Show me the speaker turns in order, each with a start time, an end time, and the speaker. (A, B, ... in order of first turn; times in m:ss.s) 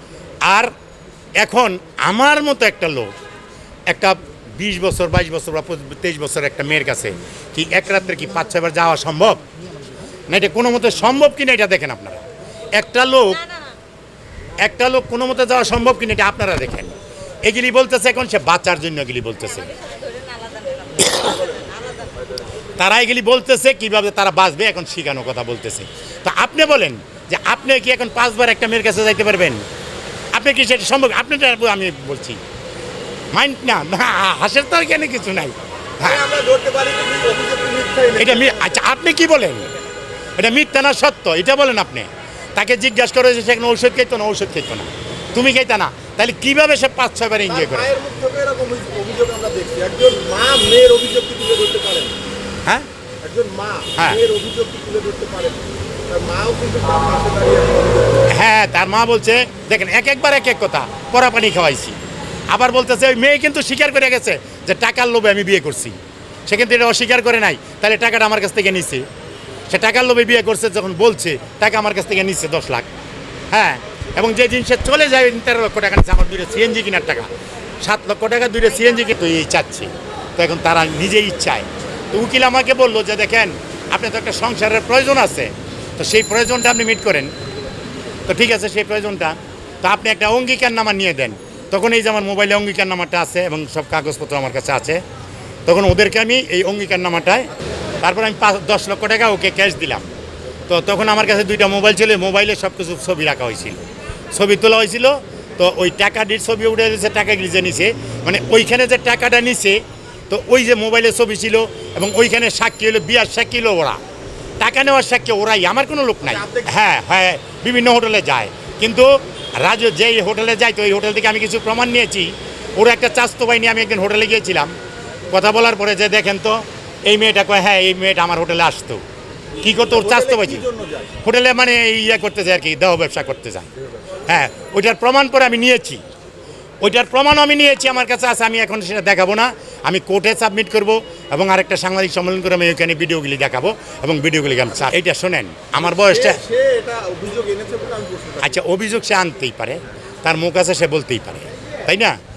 0:00.4-0:00.7 A
0:01.4-0:03.1 A
0:03.9-0:09.4 A
0:10.3-0:12.2 A
0:12.8-0:13.5 A
0:14.6-0:19.8 A
0:21.2-0:21.8 B
0:22.8-0:29.6 A
0:30.3-0:32.4 A
0:33.3-0:36.2 A
0:36.0-0:38.8 B
0:38.2-0:39.7 A
0:40.4-0:47.9 A
0:47.5-0:52.2 B
0:53.2-0:58.3 B
0:54.0-0:54.2 A
0:58.3-1:02.0 A
1:02.5-1:09.1 A
1:09.7-1:12.9 A
1:13.5-1:17.3 A
1:17.8-1:27.3 A
1:28.3-1:35.0 A
1:35.7-1:37.5 A
1:38.0-1:40.1 A
1:40.7-1:54.0 A
1:54.6-2:04.7 A
1:56.2-1:56.8 B
2:05.3-2:09.0 A
2:09.6-2:10.6 A
2:09.7-2:11.2 B
2:11.2-2:13.7 A
2:14.3-2:16.0 A
2:16.8-2:26.4 A
2:25.8-2:28.5 B
2:28.4-2:32.2 A